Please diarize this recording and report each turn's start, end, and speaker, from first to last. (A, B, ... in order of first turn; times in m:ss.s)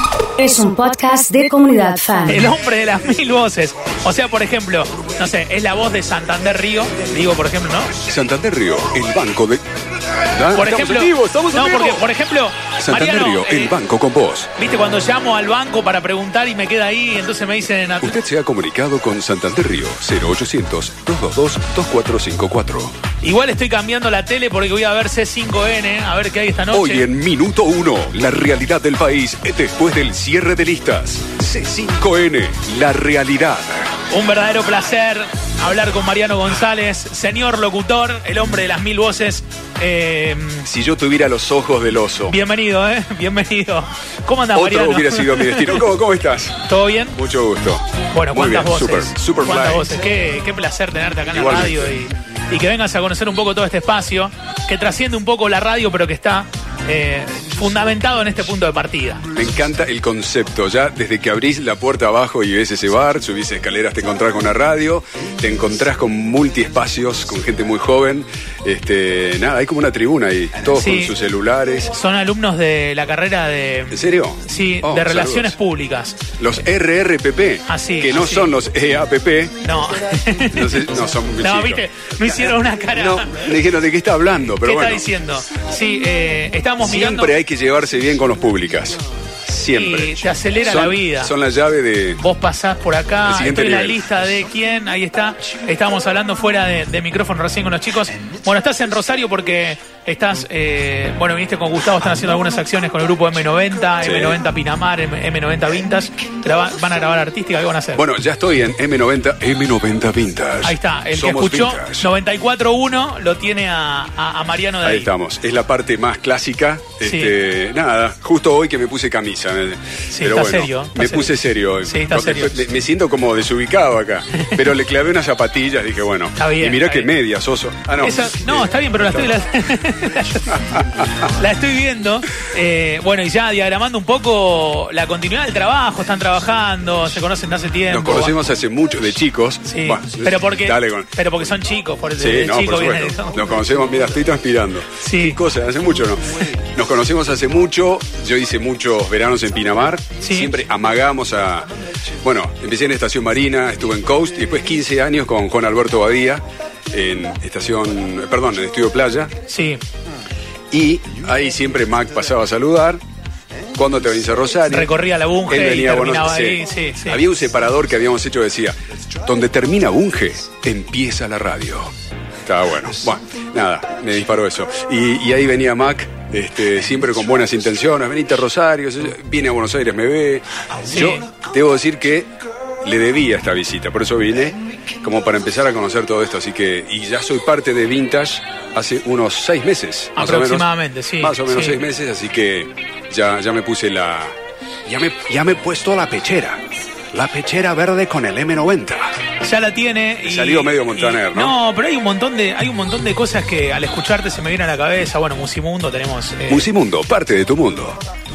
0:00.4-0:02.5 A
0:02.3-0:07.9 B
0:08.0-0:09.6 C
0:10.3-0:12.0 C
0:10.5-0:13.8 B
0:12.8-0:14.5 C
0:14.5-0:18.2 B
0:18.0-0:22.9 C
0:23.2-0:27.1 B
0:26.7-0:33.9 C
0:34.1-0:40.7 B
0:40.6-0:42.4 C
0:42.3-0:45.9 B
0:44.5-0:49.9 C
0:46.6-0:47.2 B
0:48.1-0:59.2 B
0:51.3-0:51.9 C
0:59.3-1:11.9 C
1:10.7-1:11.2 B
1:11.9-1:16.3 B
1:13.9-1:15.6 C
1:16.4-1:19.5 C
1:17.6-1:18.5 B
1:19.6-1:23.5 B
1:20.5-1:21.8 C
1:22.9-1:25.2 C
1:24.5-1:27.3 B
1:26.8-1:32.2 C
1:29.7-1:31.3 B
1:32.2-1:48.1 B
1:33.2-1:34.1 C
1:44.0-1:44.4 C
1:47.9-1:52.1 C
1:50.6-1:55.1 B
1:54.8-2:09.3 C
1:57.0-1:57.3 B
2:00.1-2:02.6 B
2:06.4-2:07.1 B
2:08.0-2:10.6 B
2:11.2-2:18.3 B
2:17.9-2:21.3 C
2:19.6-2:23.5 B
2:22.2-2:31.7 C
2:25.0-2:25.4 B
2:30.2-2:30.5 B
2:32.2-2:39.3 C
2:39.5-2:39.8 B
2:40.7-2:43.0 C
2:43.7-2:44.9 C
2:44.7-2:47.2 B
2:45.5-2:51.9 C
2:52.4-3:02.3 C
3:00.9-3:01.2 B
3:02.8-3:16.6 C
3:10.2-3:11.8 B
3:17.1-3:19.2 C
3:19.4-3:26.7 B
3:20.2-3:21.6 C
3:26.5-3:28.0 C